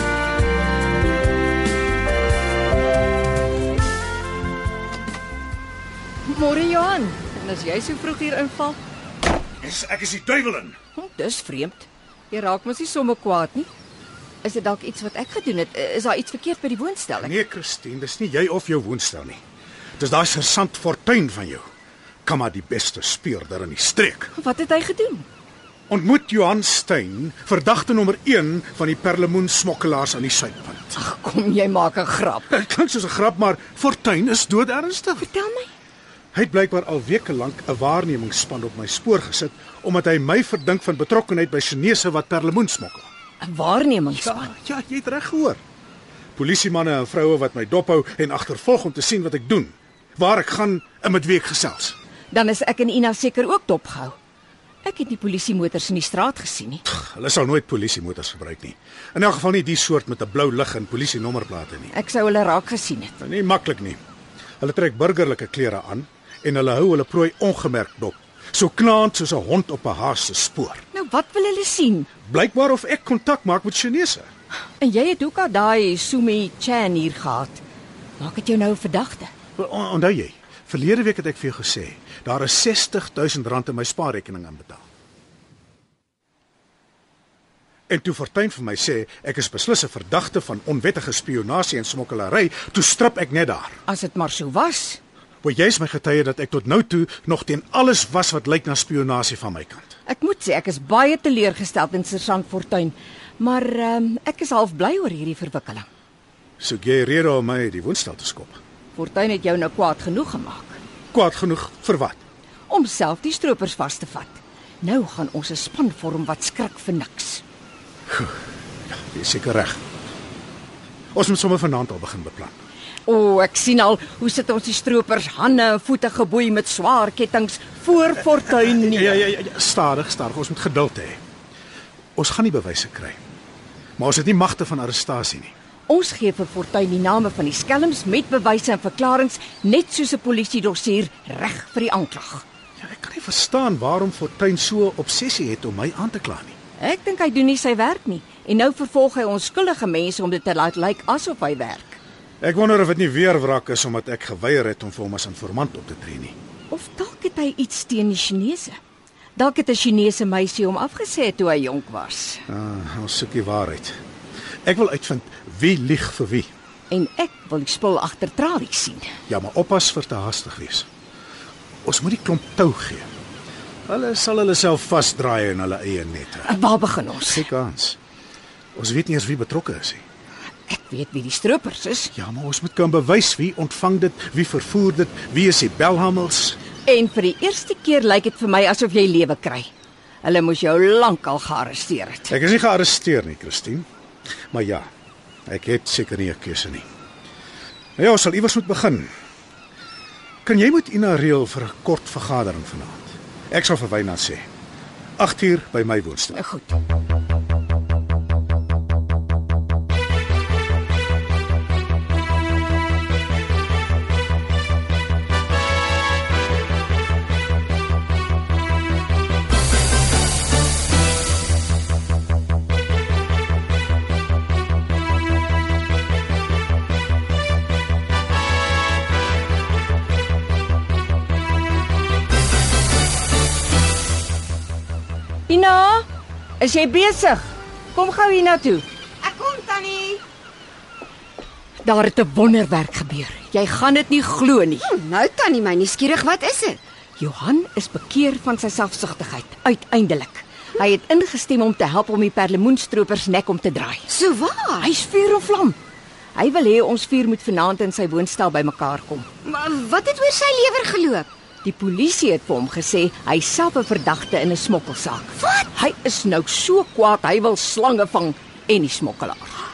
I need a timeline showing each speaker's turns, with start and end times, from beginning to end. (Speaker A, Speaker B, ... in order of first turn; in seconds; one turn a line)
Speaker A: 6.2-8.8
Speaker B: 9.6-10.8
Speaker A: 10.9-13.7
Speaker A: 14.4-17.3
Speaker B: 17.2-19.4
Speaker B: 20.0-21.6
Speaker B: 22.2-24.3
Speaker A: 24.3-25.2
Speaker B: 25.9-31.0
Speaker A: 30.9-32.5
Speaker B: 32.5-35.3
Speaker A: 35.2-35.7
Speaker B: 36.3-43.1
Speaker A: 43.4-44.5
Speaker B: 44.1-45.6
Speaker B: 46.4-52.0
Speaker A: 52.3-54.2
Speaker A: 54.8-56.8
Speaker B: 56.9-61.9
Speaker A: 61.9-63.1
Speaker B: 63.2-64.0
Speaker B: 64.6-70.8
Speaker A: 70.9-72.1
Speaker B: 72.3-74.3
Speaker A: 74.8-77.6
Speaker A: 78.2-79.3
Speaker B: 79.5-84.8
Speaker B: 87.9-93.8
Speaker A: 93.9-95.0
Speaker B: 95.4-99.9
Speaker A: 100.1-105.8
Speaker B: 106.6-108.6
Speaker A: 108.9-110.8
Speaker B: 111.1-112.2
Speaker A: 112.7-117.4
Speaker B: 118.1-118.3
Speaker B: 118.9-119.8
Speaker B: 121.1-122.6
Speaker A: 123.0-129.2
Speaker B: 128.7-131.2
Speaker B: 132.2-133.2
Speaker B: 134.0-135.5
Speaker A: 135.9-142.4
Speaker B: 142.8-146.6
Speaker A: 146.8-152.0
Speaker B: 152.4-156.3
Speaker A: 156.7-158.8
Speaker A: 159.3-162.4
Speaker B: 162.5-164.0
Speaker B: 164.6-166.5
Speaker A: 166.9-169.1
Speaker B: 169.3-170.9
Speaker B: 171.8-173.1
Speaker B: 173.8-176.5
Speaker A: 176.4-177.4
Speaker B: 177.2-178.0
Speaker B: 178.7-180.0
Speaker A: 180.7-182.1
Speaker B: 182.1-186.6
Speaker A: 186.8-189.7
Speaker A: 190.2-192.3
Speaker B: 192.3-193.8
Speaker B: 194.5-194.9
Speaker B: 195.5-196.8
Speaker B: 198.0-199.1
Speaker B: 200.4-204.4
Speaker B: 205.2-206.4
Speaker A: 206.3-206.8
Speaker A: 235.5-236.1
Speaker A: 236.6-238.8
Speaker C: 239.2-240.2
Speaker A: 241.8-244.9
Speaker C: 244.9-246.8
Speaker A: 247.2-254.1
Speaker C: 254.1-254.9
Speaker A: 254.8-255.8
Speaker A: 256.3-259.2
Speaker C: 259.4-261.2
Speaker A: 261.6-269.6
Speaker C: 265.4-265.7